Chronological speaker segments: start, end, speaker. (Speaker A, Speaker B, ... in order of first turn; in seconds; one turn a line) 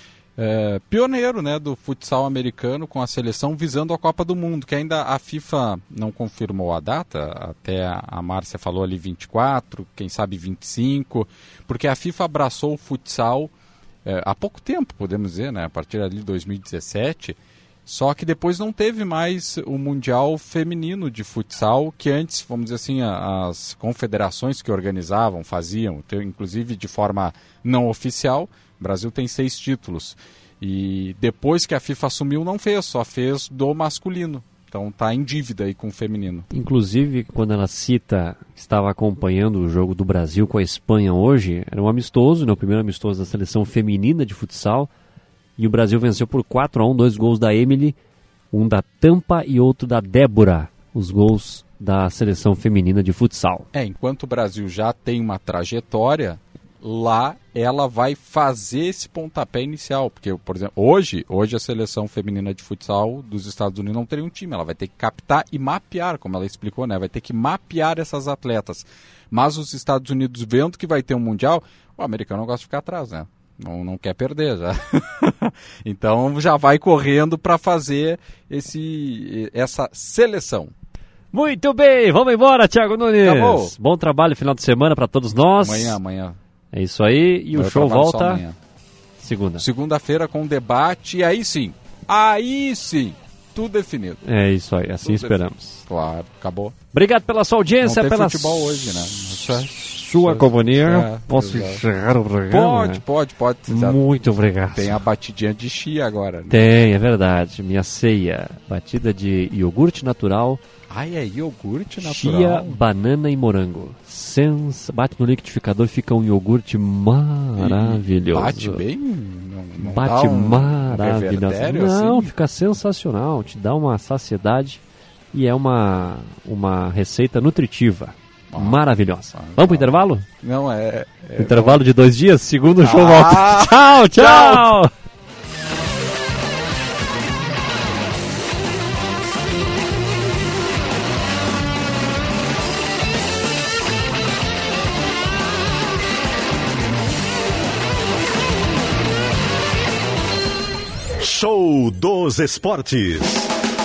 Speaker A: 0.4-13.5
Speaker A: 14.1-36.5
Speaker B: 36.5-44.9
Speaker B: 45.6-48.0
Speaker B: 48.5-53.7
Speaker A: 53.7-80.7
Speaker B: 81.3-86.0
Speaker A: 83.2-83.7
Speaker A: 85.6-86.4
Speaker B: 86.7-88.4
Speaker A: 87.5-88.6
Speaker B: 89.2-89.7
Speaker A: 89.6-94.2
Speaker B: 94.2-95.8
Speaker A: 95.0-96.8
Speaker B: 96.9-98.7
Speaker A: 97.8-101.8
Speaker B: 99.4-103.0
Speaker A: 102.5-104.0
Speaker B: 103.7-105.0
Speaker A: 104.7-106.6
Speaker B: 106.5-110.6
Speaker A: 110.9-112.8
Speaker B: 112.0-118.8
Speaker A: 117.6-122.3
Speaker B: 119.8-124.8
Speaker B: 125.3-130.3
Speaker A: 128.5-131.8
Speaker B: 131.4-134.9
Speaker A: 132.8-134.7
Speaker C: 151.2-153.5